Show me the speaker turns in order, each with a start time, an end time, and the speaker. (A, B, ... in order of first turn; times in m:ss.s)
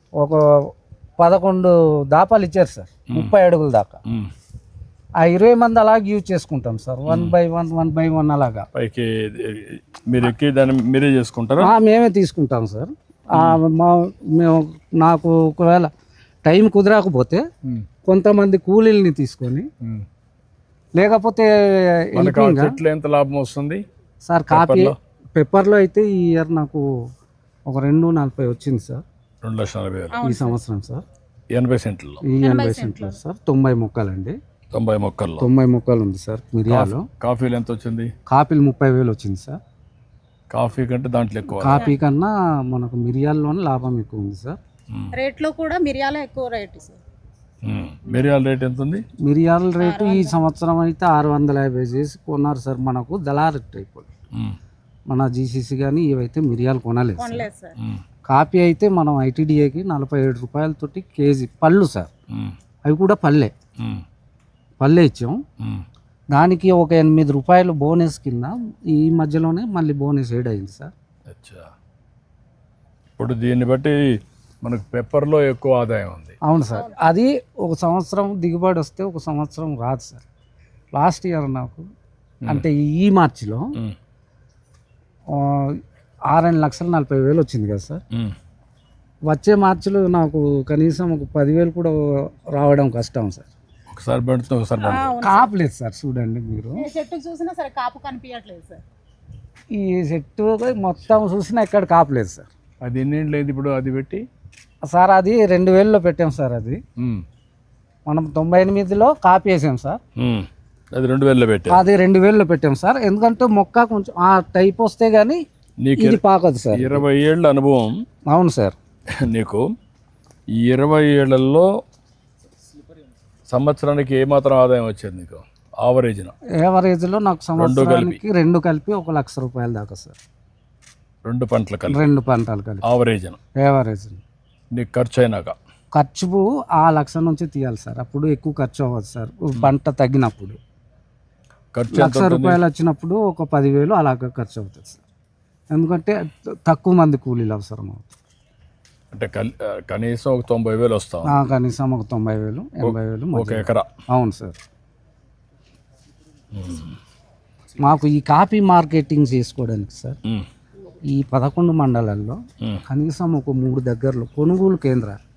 0:00.2-0:04.0 A
0:04.0-0:04.3 B
0:05.2-0:08.7 A
0:07.1-0:07.4 B
0:08.7-0:11.7 B
0:11.6-0:15.9 A
0:13.3-0:13.6 B
0:16.4-0:17.4 A
0:18.0-0:19.7 A
0:21.0-0:22.7 A
0:22.1-0:23.8 B
0:24.2-0:27.1 A
0:24.5-0:25.0 B
0:27.7-0:29.0 A
0:29.4-0:30.2 B
0:30.1-0:30.6 C
0:30.2-0:31.0 A
0:31.5-0:32.2 B
0:32.2-0:34.4 A
0:32.4-0:33.2 C
0:34.7-0:35.5 B
0:35.4-0:37.0 A
0:36.7-0:38.1 B
0:38.3-0:39.6 A
0:40.5-0:41.9 B
0:41.6-0:44.6 A
0:45.1-0:47.0 C
0:47.6-0:49.0 B
0:49.2-0:54.1 A
0:49.8-0:50.4 C
0:55.1-0:57.5 A
0:57.2-0:57.8 C
0:58.3-1:02.1 A
1:02.3-1:02.6 B
1:02.8-1:03.5 A
1:03.8-1:04.0 B
1:04.8-1:05.4 A
1:05.6-1:05.8 B
1:06.3-1:10.9 A
1:11.3-1:11.7 B
1:13.2-1:16.4 B
1:16.4-1:20.2 A
1:16.7-1:17.0 C
1:20.9-1:21.9 A
1:22.5-1:23.7 A
1:25.3-1:28.0 A
1:29.3-1:33.5 A
1:33.9-1:35.2 B
1:34.8-1:35.5 C
1:35.2-1:36.8 A
1:36.7-1:38.8 C
1:39.7-1:42.5 A
1:42.8-1:44.3 B
1:44.8-1:46.8 A
1:47.0-1:47.2 B
1:48.0-1:50.0 A
1:50.2-1:51.8 B
1:51.7-1:55.4 A
1:55.8-1:56.2 B
1:56.0-1:57.0 A
1:56.7-1:58.0 B
1:58.3-1:58.7 A
1:59.2-1:59.7 B
2:00.5-2:01.8 B
2:03.5-2:06.3 B
2:06.6-2:10.2 A
2:07.6-2:08.2 B
2:11.2-2:12.0 B
2:11.9-2:12.8 A
2:12.8-2:13.4 B
2:13.6-2:14.2 A
2:14.7-2:15.6 B
2:15.9-2:20.6 A
2:21.7-2:22.6 B
2:21.9-2:25.0 A
2:25.7-2:28.1 A
2:29.1-2:31.5 B
2:31.2-2:34.6 A
2:32.8-2:33.9 B
2:36.5-2:37.0 B
2:37.8-2:40.2 A
2:41.1-2:45.2 A